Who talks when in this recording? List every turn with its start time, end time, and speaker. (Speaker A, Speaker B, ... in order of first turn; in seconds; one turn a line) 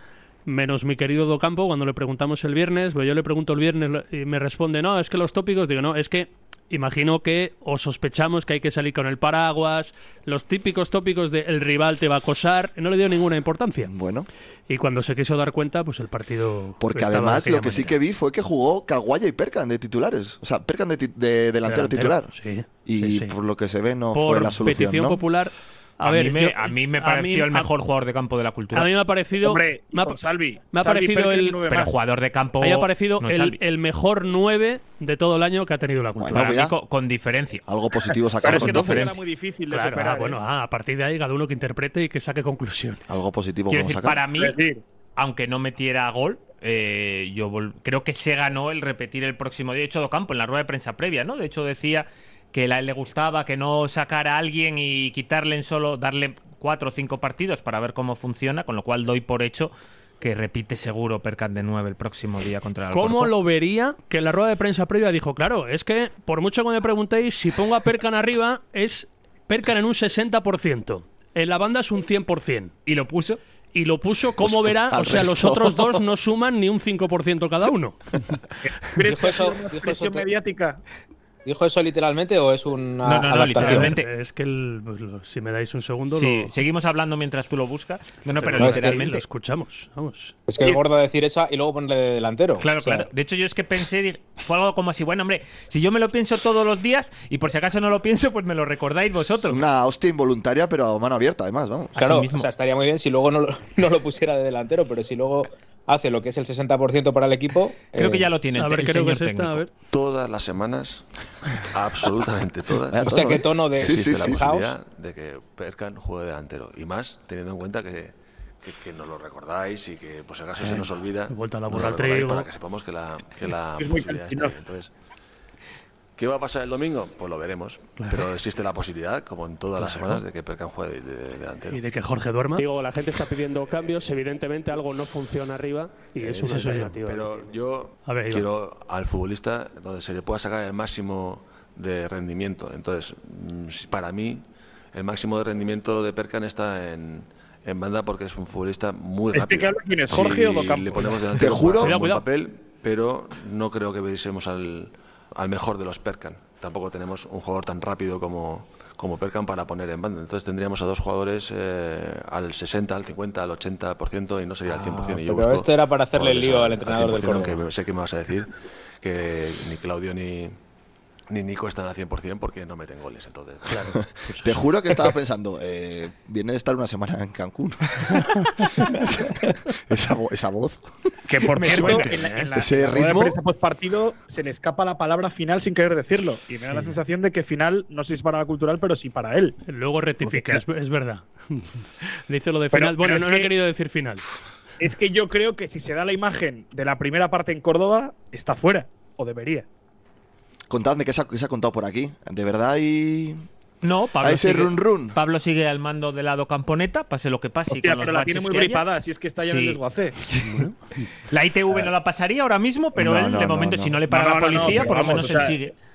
Speaker A: 0.5-13.9
Speaker B: 13.8-14.3
Speaker A: 14.7-17.9
Speaker B: 16.8-22.3
Speaker A: 21.6-23.4
Speaker B: 22.8-25.2
Speaker A: 24.1-27.7
Speaker C: 26.0-28.9
Speaker A: 28.7-30.2
Speaker D: 29.4-31.9
Speaker A: 30.7-31.6
Speaker C: 31.7-33.6
Speaker A: 32.6-36.5
Speaker B: 36.2-36.7
Speaker C: 36.3-37.6
Speaker B: 37.7-39.1
Speaker D: 38.4-40.4
Speaker C: 38.4-39.1
Speaker A: 39.7-43.0
Speaker B: 43.1-44.2
Speaker C: 43.7-44.6
Speaker D: 44.3-44.8
Speaker C: 45.2-63.3
Speaker A: 62.9-72.7
Speaker C: 72.8-73.4
Speaker A: 73.7-78.2
Speaker B: 74.4-76.0
Speaker D: 78.9-80.8
Speaker E: 79.0-80.3
Speaker E: 81.4-83.9
Speaker C: 83.0-84.1
Speaker A: 83.6-86.5
Speaker C: 86.1-89.2
Speaker A: 88.4-90.3
Speaker E: 88.5-89.0
Speaker E: 90.5-93.1
Speaker C: 92.6-99.6
Speaker B: 99.4-101.9
Speaker C: 102.0-102.5
Speaker E: 102.0-108.3
Speaker C: 107.9-109.6
Speaker A: 108.6-109.7
Speaker F: 109.9-111.0
Speaker F: 111.7-124.9
Speaker B: 112.9-114.4
Speaker E: 113.1-114.7
Speaker A: 120.6-122.5
Speaker D: 123.8-124.5
Speaker F: 126.2-131.8
Speaker A: 128.0-128.2
Speaker A: 129.8-130.2
Speaker A: 131.7-132.7
Speaker G: 132.7-137.2
Speaker F: 136.1-170.6
Speaker A: 136.2-137.0
Speaker A: 138.0-138.5
Speaker D: 149.3-151.1
Speaker B: 151.4-151.9
Speaker A: 151.8-152.2
Speaker E: 164.7-167.6
Speaker F: 171.3-173.9
Speaker A: 173.7-174.7
Speaker B: 174.4-180.9
Speaker D: 181.3-189.6
Speaker A: 181.6-182.5
Speaker B: 181.7-183.4
Speaker A: 186.6-186.9
Speaker A: 189.7-191.7
Speaker D: 190.3-190.6
Speaker A: 192.3-194.2
Speaker D: 192.7-193.5
Speaker D: 194.8-199.7
Speaker B: 200.7-203.4
Speaker C: 203.8-208.9
Speaker B: 204.2-205.2
Speaker D: 207.7-210.2
Speaker C: 209.4-210.4
Speaker A: 210.4-211.1
Speaker C: 211.3-215.7
Speaker B: 212.9-214.0
Speaker D: 214.1-215.6